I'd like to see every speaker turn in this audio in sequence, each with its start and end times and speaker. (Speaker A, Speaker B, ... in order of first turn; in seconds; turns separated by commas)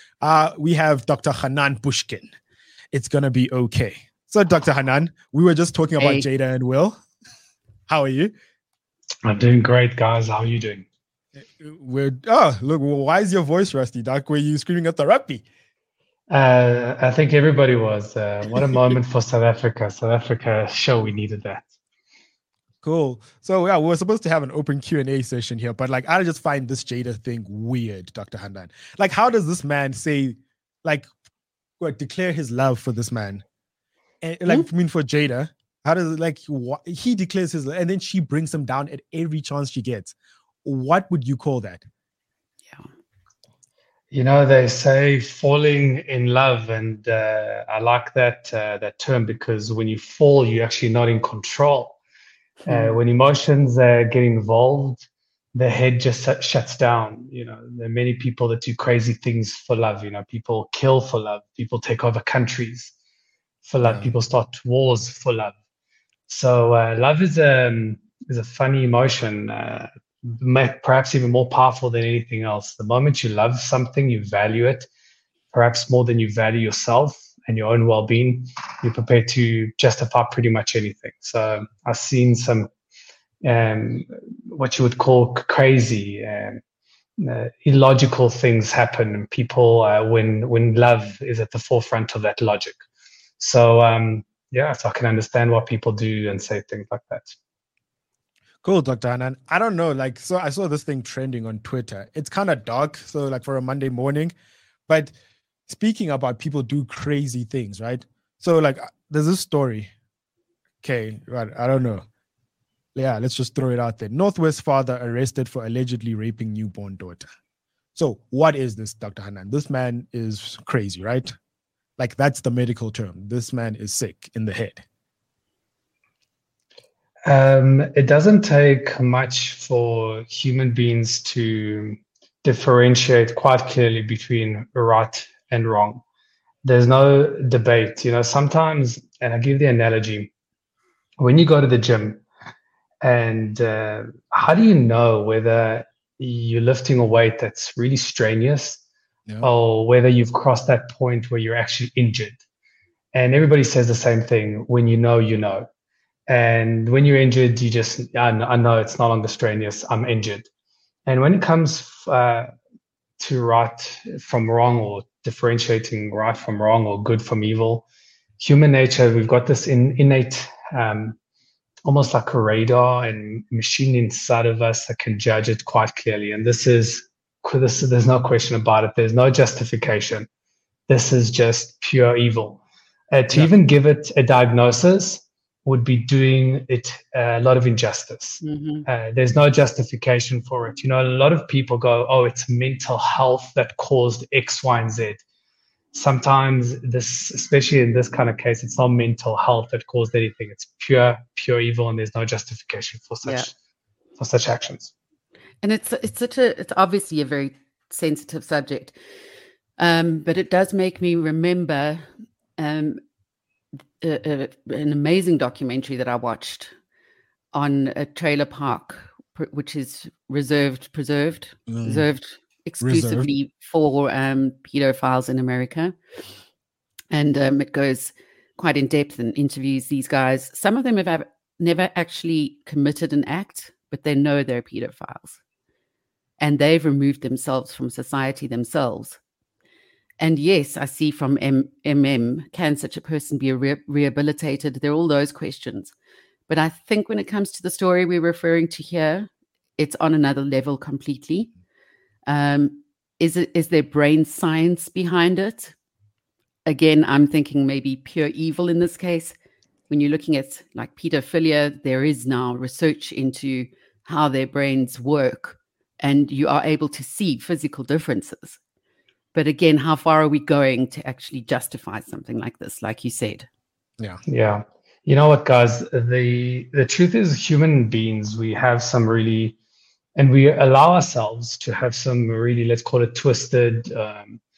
Speaker A: 0.2-2.3, Speaker A: 2.9-7.0, Speaker B: 6.0-6.2, Speaker A: 7.9-8.3, Speaker C: 9.2-10.9, Speaker A: 11.4-15.4, Speaker C: 16.3-21.7, Speaker A: 22.8-31.1, Speaker A: 31.8-33.4, Speaker A: 34.2-41.9, Speaker C: 44.1-52.0, Speaker B: 52.7-53.0, Speaker C: 52.7-62.9, Speaker C: 63.6-65.5, Speaker A: 63.8-64.1, Speaker C: 66.3-74.9, Speaker C: 75.5-82.7, Speaker C: 83.4-86.6, Speaker C: 87.2-92.8, Speaker C: 93.4-97.3, Speaker A: 98.6-104.3, Speaker A: 104.9-105.1, Speaker A: 105.7-109.9, Speaker A: 110.8-112.0, Speaker A: 113.0-117.3, Speaker A: 118.0-121.3, Speaker A: 122.0-124.8, Speaker C: 127.3-136.0, Speaker C: 136.6-140.3, Speaker C: 141.2-142.2, Speaker C: 143.0-148.8, Speaker C: 149.4-152.4, Speaker C: 153.1-155.7, Speaker C: 156.3-160.5, Speaker C: 161.1-162.5, Speaker C: 163.2-167.9, Speaker C: 168.4-171.2, Speaker C: 171.8-180.3, Speaker C: 180.9-195.2, Speaker B: 188.4-188.9, Speaker C: 195.9-203.5, Speaker C: 204.2-204.9, Speaker B: 205.6-208.9, Speaker B: 209.8-212.1, Speaker B: 212.6-213.0, Speaker B: 214.0-216.7, Speaker B: 217.5-226.0, Speaker A: 221.7-222.1, Speaker A: 222.8-223.3, Speaker B: 227.1-235.4, Speaker B: 236.4-239.2, Speaker B: 240.2-245.9, Speaker B: 246.5-251.5, Speaker B: 252.3-255.7, Speaker B: 256.7-259.4, Speaker B: 259.9-268.6, Speaker B: 269.3-273.5, Speaker C: 274.3-279.6, Speaker C: 280.2-284.4